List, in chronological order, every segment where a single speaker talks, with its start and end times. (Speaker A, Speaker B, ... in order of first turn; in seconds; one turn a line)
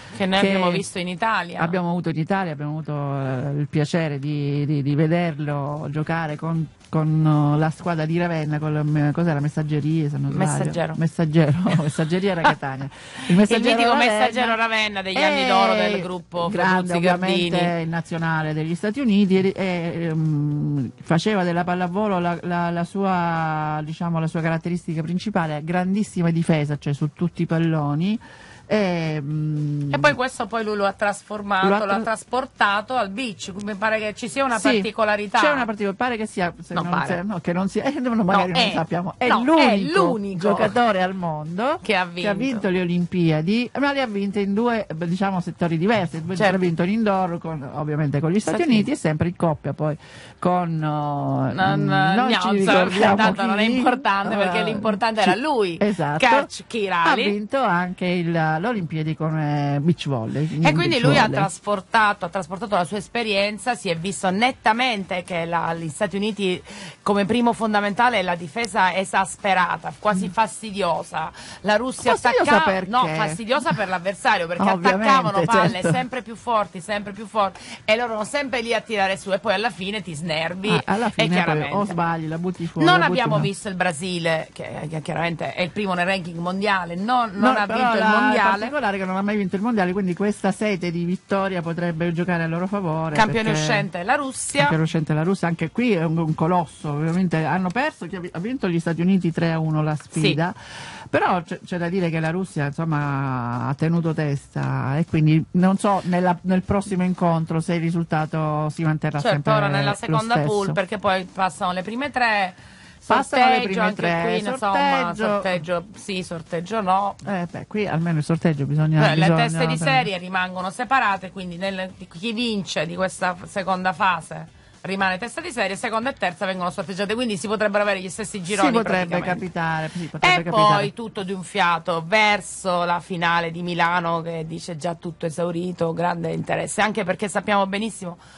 Speaker A: 0.1-1.8
Speaker B: 0.3-0.8
Speaker B: 1.6-14.6
Speaker A: 10.3-11.0
Speaker A: 13.5-17.7
Speaker B: 15.1-30.1
Speaker A: 29.9-35.6
Speaker B: 31.6-32.1
Speaker B: 34.5-56.5
Speaker A: 36.7-37.2
Speaker A: 38.3-40.8
Speaker A: 41.8-42.6
Speaker A: 48.5-48.9
Speaker A: 51.5-57.4
Speaker B: 57.0-61.5
Speaker A: 60.6-82.0
Speaker B: 72.0-73.4
Speaker B: 74.6-76.0
Speaker B: 80.6-83.5
Speaker A: 82.8-88.7
Speaker B: 87.4-93.9
Speaker A: 93.1-94.8
Speaker B: 94.6-100.6
Speaker A: 100.1-100.4
Speaker B: 101.1-110.8
Speaker A: 109.2-117.2
Speaker B: 113.1-115.6
Speaker B: 117.2-120.1
Speaker A: 119.0-129.4
Speaker B: 128.5-130.9
Speaker A: 130.2-138.2